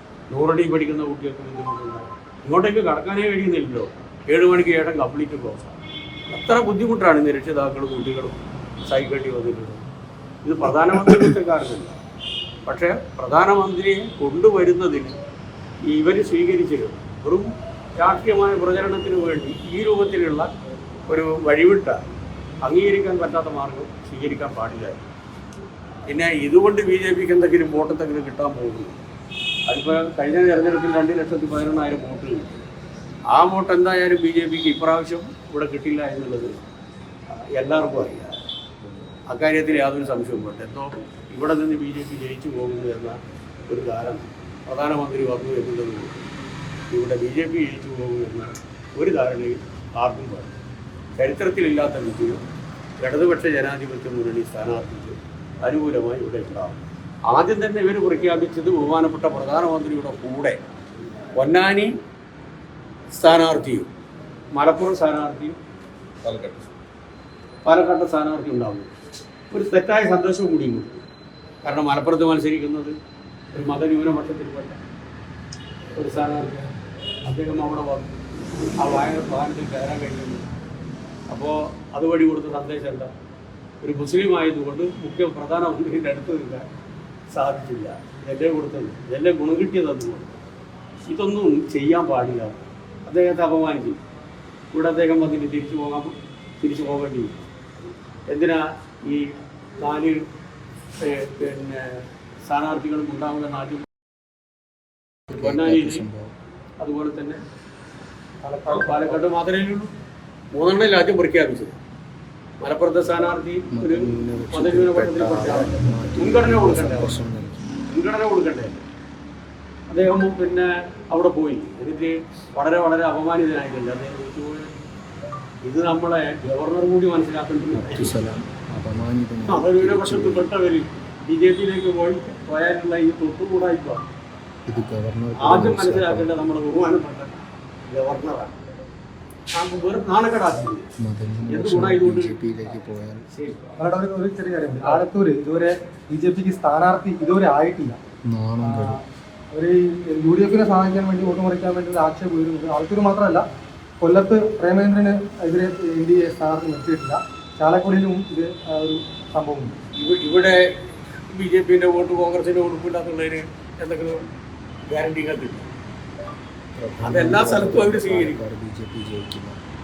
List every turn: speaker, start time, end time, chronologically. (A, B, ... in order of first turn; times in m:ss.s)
0:00.3-0:05.8 A
0:06.3-0:09.8 A
0:10.4-0:12.0 A
0:12.7-0:15.2 A
0:15.9-0:20.5 A
0:21.1-0:22.0 A
0:22.6-0:25.0 A
0:26.1-0:29.0 A
0:29.7-0:32.6 A
0:33.3-0:36.5 A
0:37.4-0:38.4 A
0:39.3-0:46.3 A
0:46.9-0:50.6 A
0:51.2-0:52.4 A
0:53.0-1:00.6 A
1:01.4-1:01.9 A
1:03.1-1:03.9 A
1:04.5-1:05.6 A
1:06.2-1:06.7 A
1:07.6-1:08.9 A
1:09.5-1:11.0 A
1:11.6-1:13.0 A
1:13.5-1:14.8 A
1:16.0-1:16.7 A
1:17.3-1:18.2 A
1:18.8-1:20.4 A
1:21.3-1:23.1 A
1:23.8-1:26.7 A
1:27.3-1:30.4 A
1:31.1-1:34.0 A
1:34.7-1:37.4 A
1:38.3-1:40.2 A
1:41.0-1:43.8 A
1:45.3-1:46.3 B
1:45.3-1:46.1 A
1:46.8-1:47.4 A
1:48.4-1:49.3 C
1:48.7-1:49.9 A
1:50.5-1:51.8 A
1:52.6-1:57.2 A
1:53.7-1:57.8 B
1:57.9-1:58.8 A
1:59.9-2:04.8 A
2:05.6-2:08.2 A
2:07.8-2:10.5 B
2:09.5-2:14.1 A
2:14.7-2:16.3 B
2:15.4-2:17.4 A
2:17.9-2:18.6 A
2:19.6-2:20.9 A
2:21.0-2:23.3 B
2:21.5-2:22.3 A
2:23.3-2:23.6 A
2:23.8-2:28.0 C
2:28.2-2:29.0 B
2:28.6-2:29.0 C
2:29.5-2:33.5 C
2:34.0-2:39.8 C
2:40.0-2:40.6 A
2:41.3-2:44.2 A
2:44.9-2:45.7 A
2:46.8-2:49.6 B
2:47.0-2:48.4 A